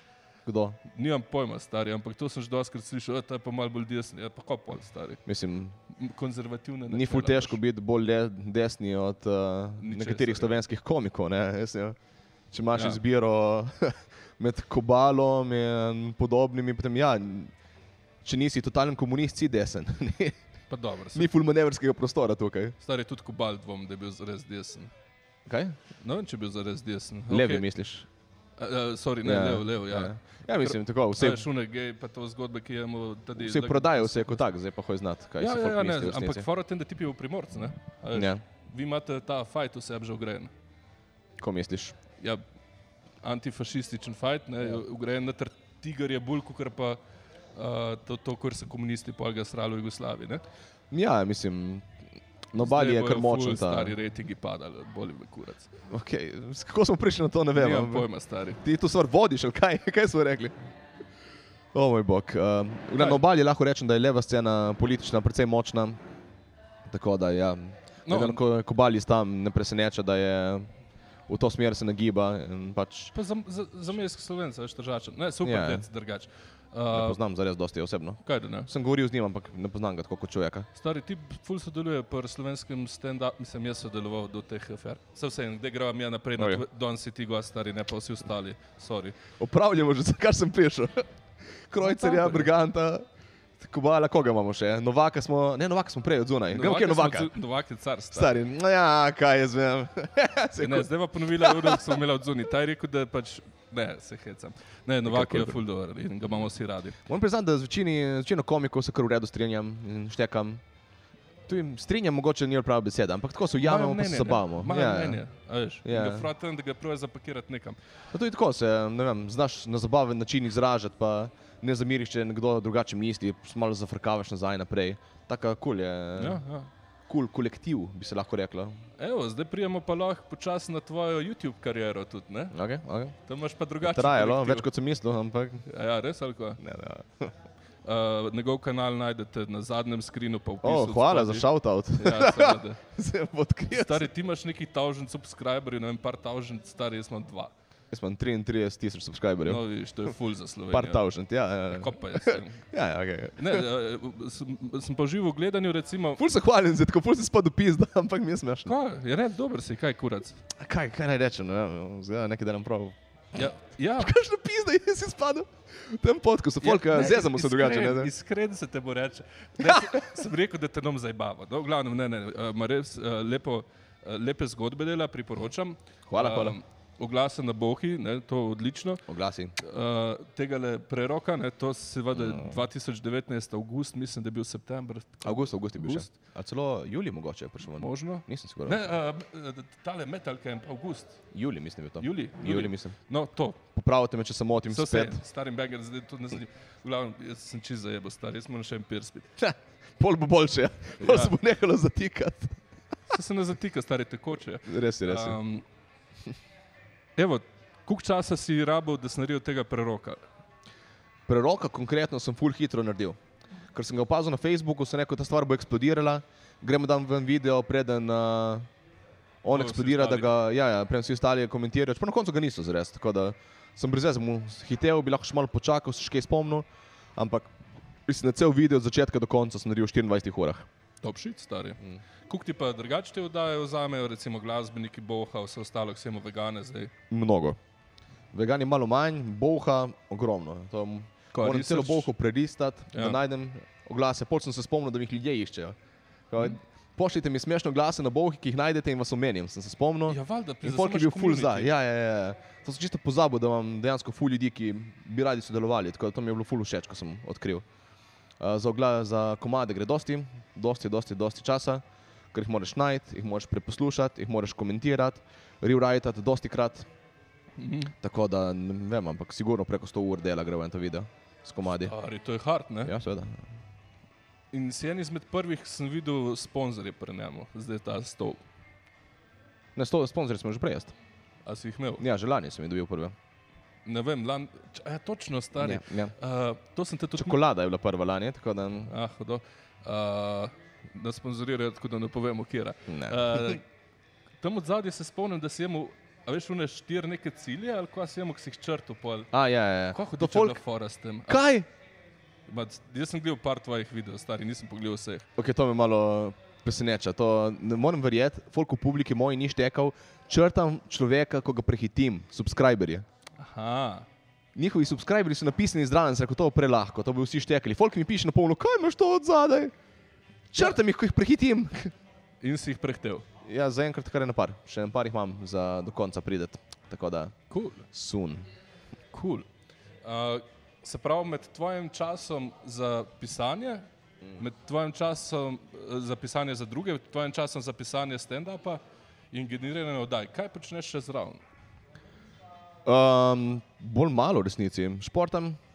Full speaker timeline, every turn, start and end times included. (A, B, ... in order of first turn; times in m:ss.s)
0:00.4-0:00.8 A
0:00.8-0:05.2 B
0:05.2-0:05.8 A
0:05.9-0:07.6 B
0:06.9-0:12.0 A
0:09.8-0:10.5 B
0:12.5-0:17.5 A
0:12.7-0:13.0 B
0:18.2-0:20.4 A
0:20.7-0:21.3 B
0:21.1-0:22.8 A
0:22.8-0:24.9 B
0:25.5-0:25.8 A
0:26.0-0:27.6 B
0:27.3-0:28.1 A
0:28.6-0:34.4 B
0:29.2-0:31.5 A
0:33.4-0:36.5 A
0:35.4-0:40.5 B
0:38.1-0:38.4 A
0:41.4-0:42.0 A
0:43.2-0:47.0 B
0:47.5-0:50.4 B
0:50.9-0:51.9 A
0:52.5-0:53.9 A
0:52.6-0:55.7 B
0:55.9-0:58.1 A
0:57.5-0:58.6 B
0:58.6-1:00.5 A
1:01.7-1:06.0 A
1:06.9-1:10.7 A
1:08.1-1:08.4 B
1:11.3-1:13.1 A
1:13.1-1:17.2 B
1:15.4-1:15.8 A
1:16.9-1:20.7 A
1:18.2-1:18.7 B
1:20.7-1:29.2 B
1:26.4-1:26.6 A
1:29.4-1:31.1 A
1:31.7-1:33.0 A
1:31.8-1:32.5 B
1:33.6-1:37.3 A
1:36.5-1:38.3 B
1:38.1-1:42.0 A
1:40.6-1:47.0 B
1:45.0-1:45.6 A
1:47.0-1:50.6 A
1:51.5-1:55.2 A
1:53.6-1:57.8 B
1:55.8-1:56.3 A
1:58.1-2:06.4 A
2:06.2-2:06.7 B
2:07.1-2:08.8 A
2:09.0-2:12.5 B
2:12.5-2:13.2 A
2:13.2-2:14.7 B
2:13.8-2:15.6 A
2:15.6-2:16.6 B
2:16.6-2:17.3 A
2:17.8-2:22.8 B
2:20.6-2:24.1 A
2:23.7-2:27.5 B
2:27.9-2:29.6 A
2:29.4-2:31.0 B
2:30.7-2:33.6 A
2:31.7-2:32.7 B
2:33.4-2:36.2 B
2:36.2-2:38.7 A
2:38.6-2:40.4 B
2:40.5-2:43.4 A
2:43.3-2:44.1 B
2:44.0-2:48.1 A
2:46.6-2:59.0 B
2:49.6-2:50.1 A
2:56.1-2:56.6 A
2:59.1-2:59.5 A
2:59.6-3:06.1 B
3:02.1-3:02.6 A
3:05.2-3:08.9 A
3:07.8-3:11.2 B
3:11.3-3:12.9 A
3:12.0-3:13.6 B
3:13.7-3:15.2 A
3:14.7-3:19.3 B
3:19.4-3:22.6 A
3:21.0-3:21.3 B
3:23.1-3:25.6 B
3:24.7-3:25.4 A
3:27.2-3:30.2 B
3:31.3-3:33.2 A
3:33.7-3:38.7 A
3:39.4-3:47.5 A
3:39.5-3:40.3 B
3:48.0-3:50.7 A
3:51.0-3:56.9 B
3:57.1-3:57.6 A
3:58.3-4:05.8 A
4:01.3-4:02.1 B
4:06.3-4:17.6 A
4:10.1-4:11.7 B
4:18.4-4:26.9 A
4:27.6-4:27.9 B
4:28.0-4:31.9 A
4:31.8-4:32.9 B
4:32.8-4:33.4 A
4:34.5-4:38.4 B
4:39.8-4:40.9 A
4:41.4-4:42.0 B
4:42.0-4:43.1 A
4:43.8-4:47.4 B
4:45.6-4:46.1 A
4:47.1-4:48.9 A
4:48.8-4:53.6 B
4:52.9-4:53.6 A
4:54.4-4:59.3 B
4:59.3-5:00.6 A
4:59.9-5:01.4 B
5:01.3-5:01.7 A
5:02.5-5:05.2 B
5:05.4-5:13.0 A
5:13.4-5:14.1 B
5:14.5-5:19.7 A
5:20.5-5:21.9 A
5:22.4-5:23.2 B
5:23.4-5:27.3 A
5:27.5-5:27.8 B
5:27.9-5:28.5 A
5:29.1-5:29.5 B
5:30.0-5:33.8 B
5:34.4-5:38.8 B
5:39.3-5:41.4 B
5:42.8-5:45.6 A